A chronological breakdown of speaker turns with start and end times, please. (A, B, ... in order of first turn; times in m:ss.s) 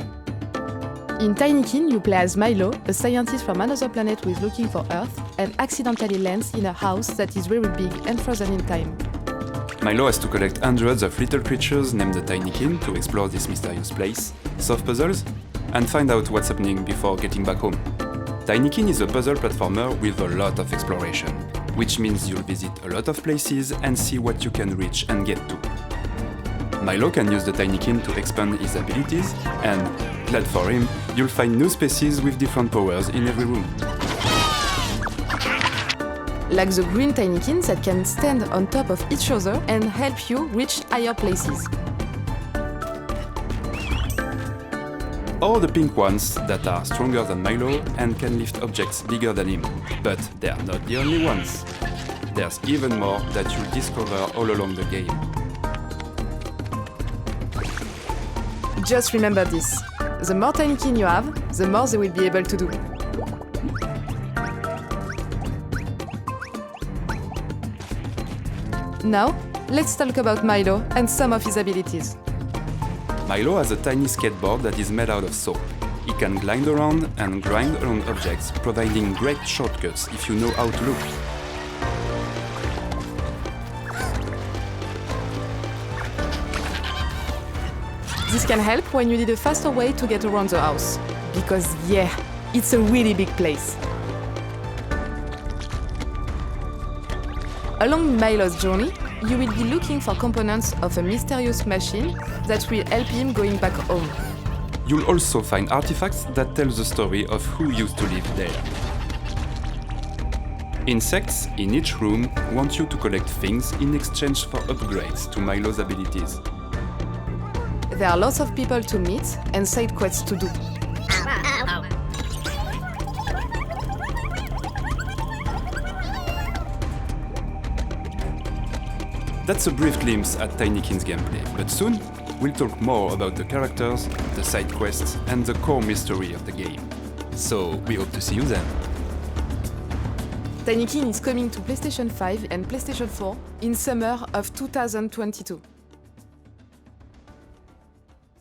0:01.2-0:09.0 A
0:09.8-0:17.8 B
0:18.4-0:25.7 B
0:26.8-0:33.8 B
0:36.5-0:41.7 A
0:45.4-0:51.7 B
0:52.3-0:55.3 B
0:58.8-1:02.8 A
1:09.0-1:12.2 A
1:13.2-1:21.1 B
1:28.3-1:33.8 A
1:37.8-1:44.2 A
1:44.8-1:48.7 B
1:50.8-1:56.4 B
1:57.9-2:00.5 A
2:09.4-2:18.8 B
2:20.6-2:25.6 A